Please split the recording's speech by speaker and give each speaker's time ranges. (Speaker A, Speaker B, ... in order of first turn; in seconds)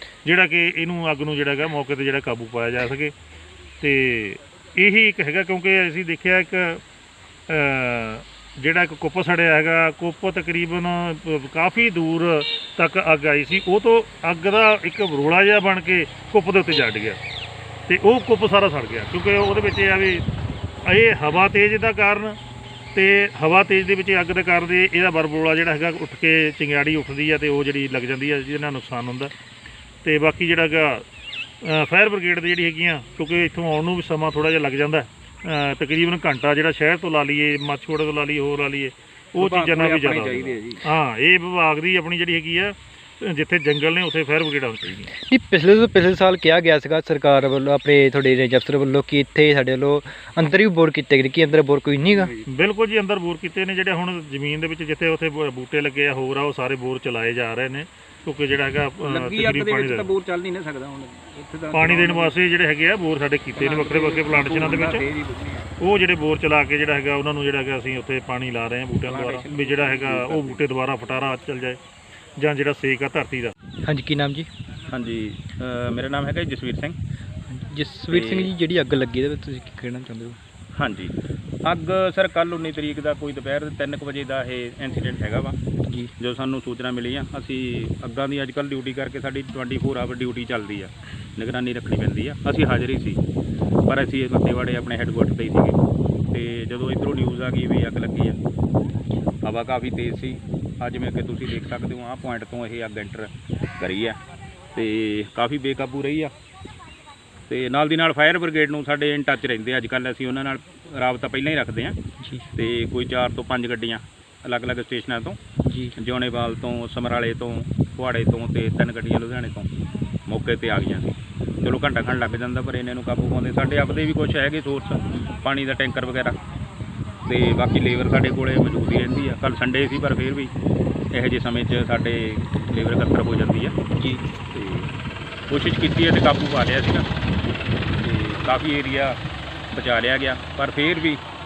Speaker A: 0.2-3.1, 3.8-6.8, 7.5-17.2, 17.9-20.2, 20.8-22.4, 22.9-29.3, 30.0-31.0, 31.6-45.1, 52.5-60.1, 61.7-65.0, 65.8-71.8, 72.4-73.5
Speaker B: 39.4-40.9, 52.1-52.4, 59.0-62.3, 63.5-65.7, 69.0-70.6, 74.9-76.9, 78.1-78.5, 80.8-85.5, 86.2-93.2, 93.9-95.8, 96.3-98.4, 99.4-104.2, 104.7-106.3, 107.5-112.0, 112.5-115.4, 116.0-119.7, 120.3-126.4, 127.2-130.5, 131.1-133.7, 134.5-134.9, 135.5-137.1, 138.0-139.2, 139.7-141.2
Speaker C: 45.1-52.3, 73.8-74.5, 77.5-80.4, 112.2-112.5, 115.6-116.0, 133.9-134.2